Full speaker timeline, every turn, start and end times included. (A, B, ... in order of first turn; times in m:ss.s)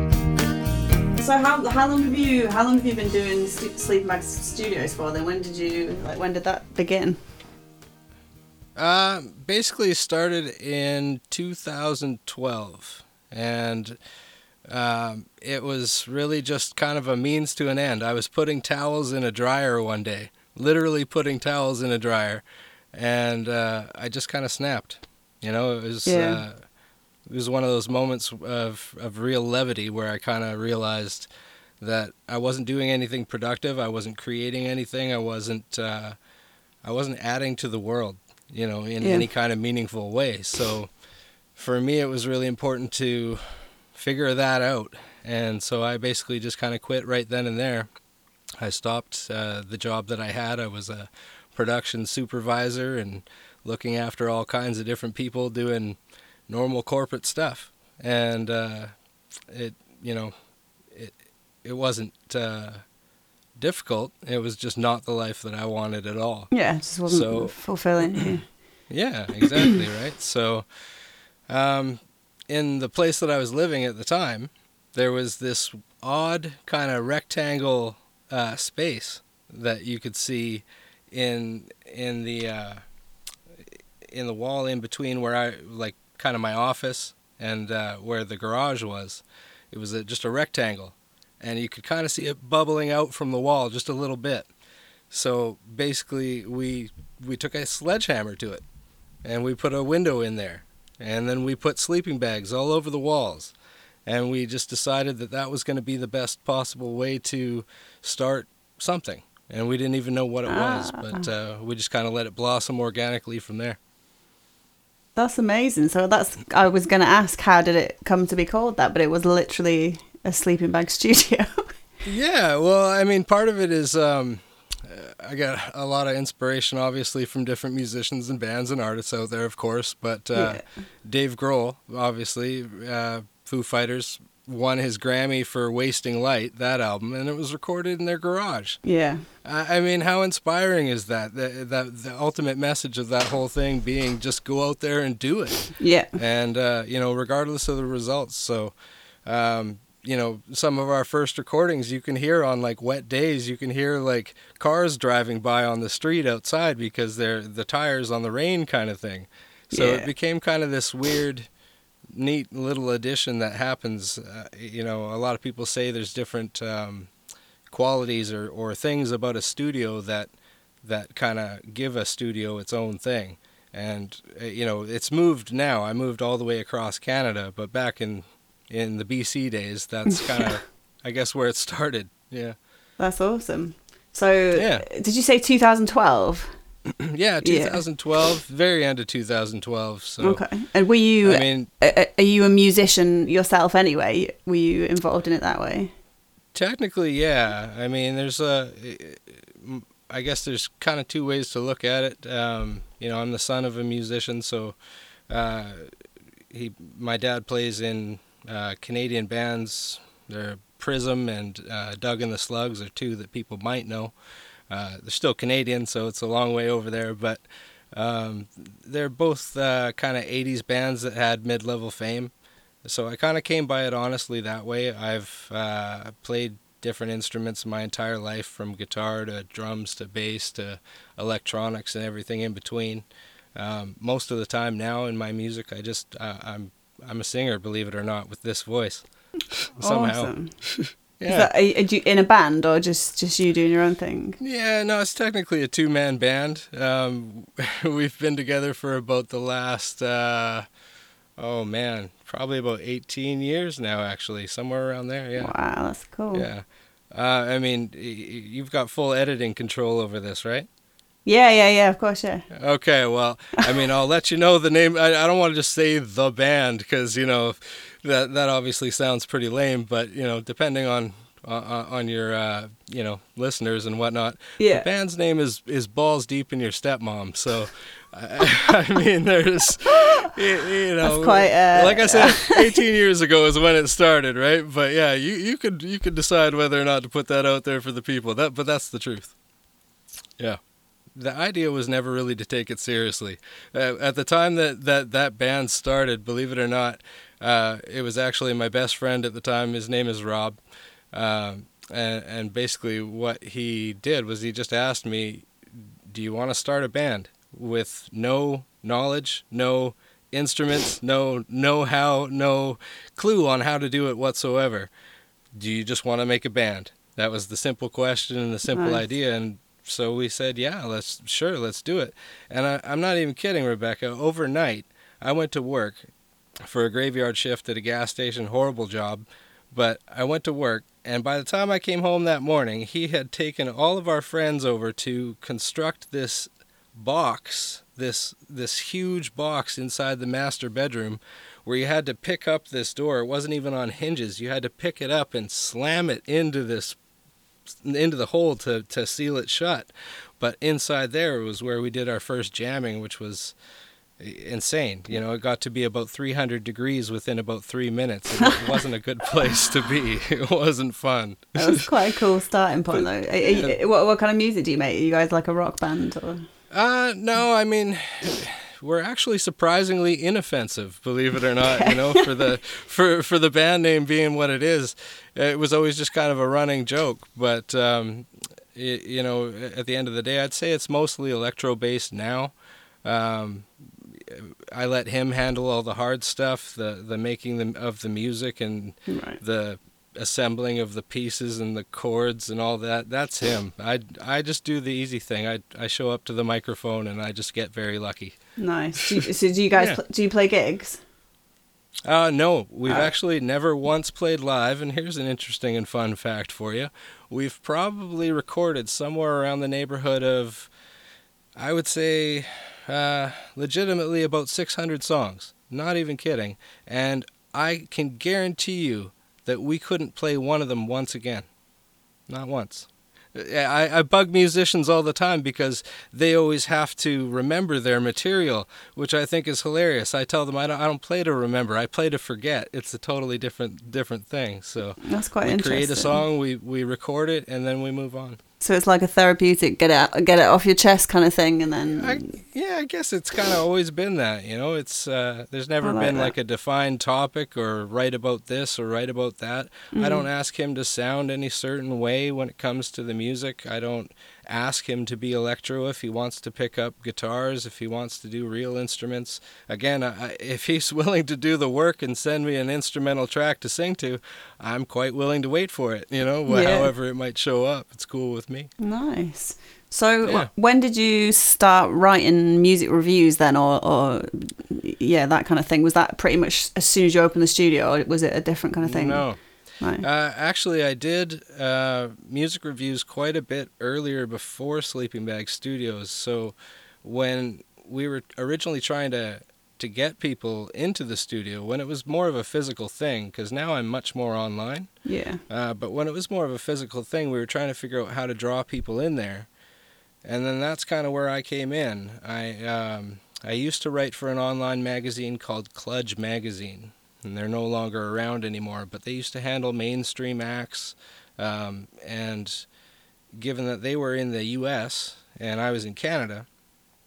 0:01.1-0:07.2 A
0:08.8-0:14.0 B
0:14.6-0:26.6 B
0:26.0-0:26.4 A
0:27.3-0:31.3 B
0:31.8-0:36.2 B
0:36.8-0:40.9 B
0:39.0-0:39.3 A
0:41.5-0:47.9 B
0:48.6-0:58.9 B
0:59.5-1:00.3 B
1:00.9-1:02.8 B
1:03.6-1:08.3 B
1:06.5-1:08.5 A
1:08.9-1:22.8 B
1:23.7-1:34.5 B
1:35.1-1:38.6 B
1:39.2-1:43.5 B
1:44.0-1:53.8 B
1:50.5-1:51.3 A
1:55.2-2:01.7 A
2:02.0-2:18.8 B
2:10.3-2:10.8 A
2:18.8-2:19.2 A
2:19.4-2:41.5 B
2:25.8-2:26.1 A
2:39.7-2:40.1 A
2:42.1-2:47.1 B
2:47.7-2:50.3 B
2:50.8-3:02.6 B
3:03.0-3:06.5 A
3:04.5-3:04.8 B
3:07.0-3:10.4 B
3:07.4-3:07.8 A
3:10.2-3:15.9 A
3:11.2-3:11.7 B
3:16.5-3:24.8 B
3:25.3-3:25.9 B
3:26.5-3:34.1 B
3:34.7-3:42.3 B
3:42.8-3:59.0 B
3:59.6-4:01.5 B
3:59.8-4:00.6 A
4:01.3-4:04.4 A
4:04.4-4:10.7 B
4:11.4-4:15.5 B
4:15.4-4:16.5 A
4:16.3-4:20.7 B
4:21.2-4:22.4 A
4:22.5-4:49.3 B
4:34.6-4:34.9 A
4:41.0-4:42.8 A
4:51.1-5:00.6 B
5:01.1-5:14.9 B
5:15.6-5:26.1 B
5:18.7-5:19.0 A
5:26.6-5:47.0 B
5:47.7-5:53.5 B
5:54.2-6:01.9 B
6:01.5-6:06.4 A
6:02.9-6:03.8 B
6:06.7-6:38.4 B
6:11.6-6:12.5 A
6:29.1-6:29.4 A
6:38.6-6:41.0 A
6:39.7-6:40.0 B
6:42.0-6:50.7 B
6:51.6-7:01.5 B
7:02.3-7:18.4 B
7:15.0-7:16.2 A
7:18.6-7:22.3 A
7:21.9-7:48.7 B
7:25.8-7:26.3 A
7:29.9-7:30.3 A
7:46.5-7:46.9 A
7:48.8-7:59.3 A
7:50.2-7:50.5 B
7:58.8-7:59.4 B
7:59.8-8:00.0 A
8:00.0-8:14.9 B
8:15.0-8:15.4 A
8:15.5-8:19.5 B
8:20.2-8:32.7 B
8:33.3-8:36.5 B